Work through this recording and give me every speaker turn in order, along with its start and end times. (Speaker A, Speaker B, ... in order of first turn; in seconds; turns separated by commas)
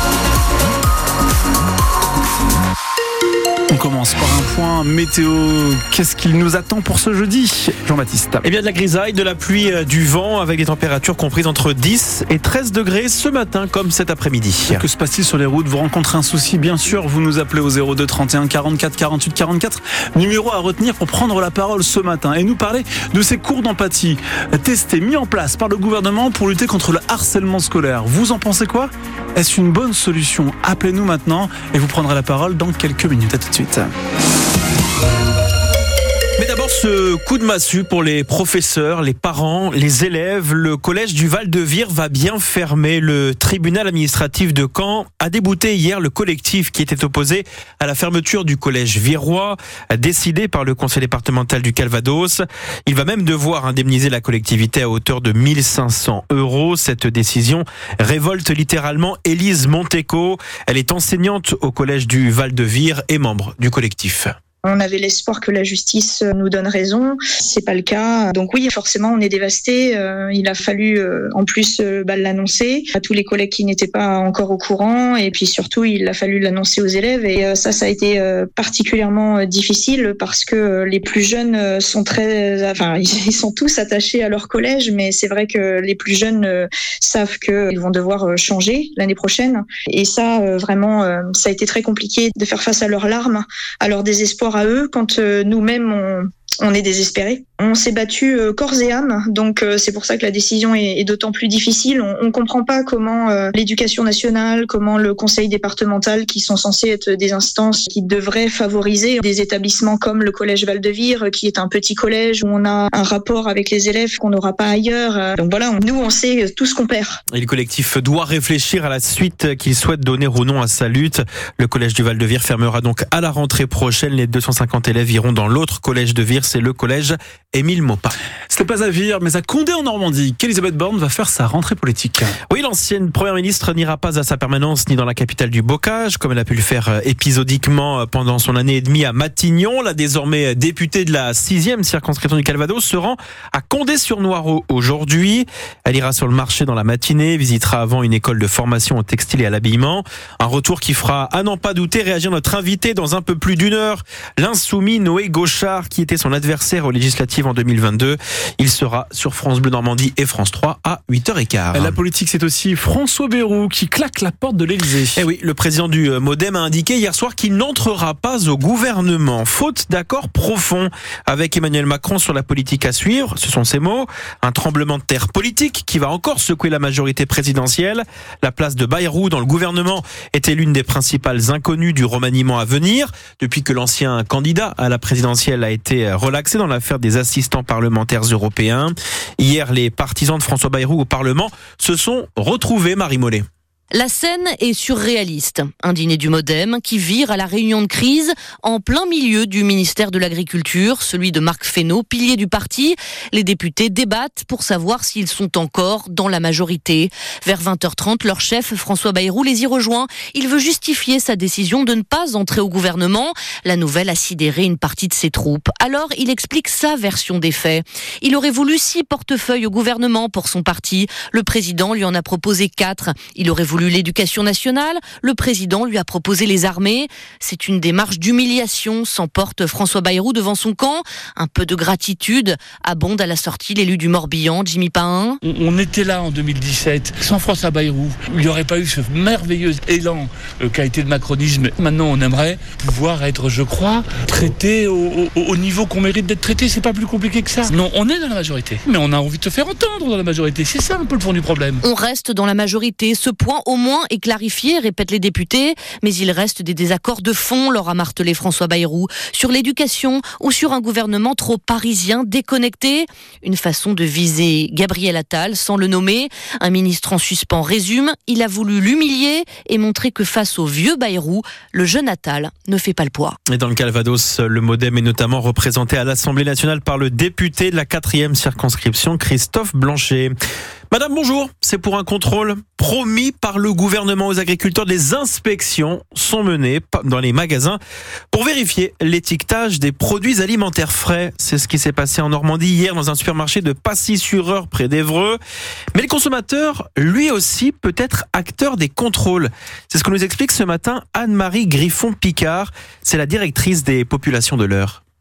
Speaker A: 3.7-8.5, Speaker B: 8.4-14.8, Speaker A: 14.7-33.9, Speaker B: 36.4-64.3, Speaker C: 64.6-117.2, Speaker B: 117.3-128.1, Speaker A: 128.5-132.3, Speaker B: 132.5-162.0, Speaker A: 161.7-165.2, Speaker B: 165.2-193.4, Speaker D: 193.9-235.4, Speaker E: 235.4-251.8, Speaker D: 251.8-273.4, Speaker B: 273.5-280.3, Speaker B: 280.9-287.8, Speaker B: 288.3-295.4, Speaker B: 295.9-305.0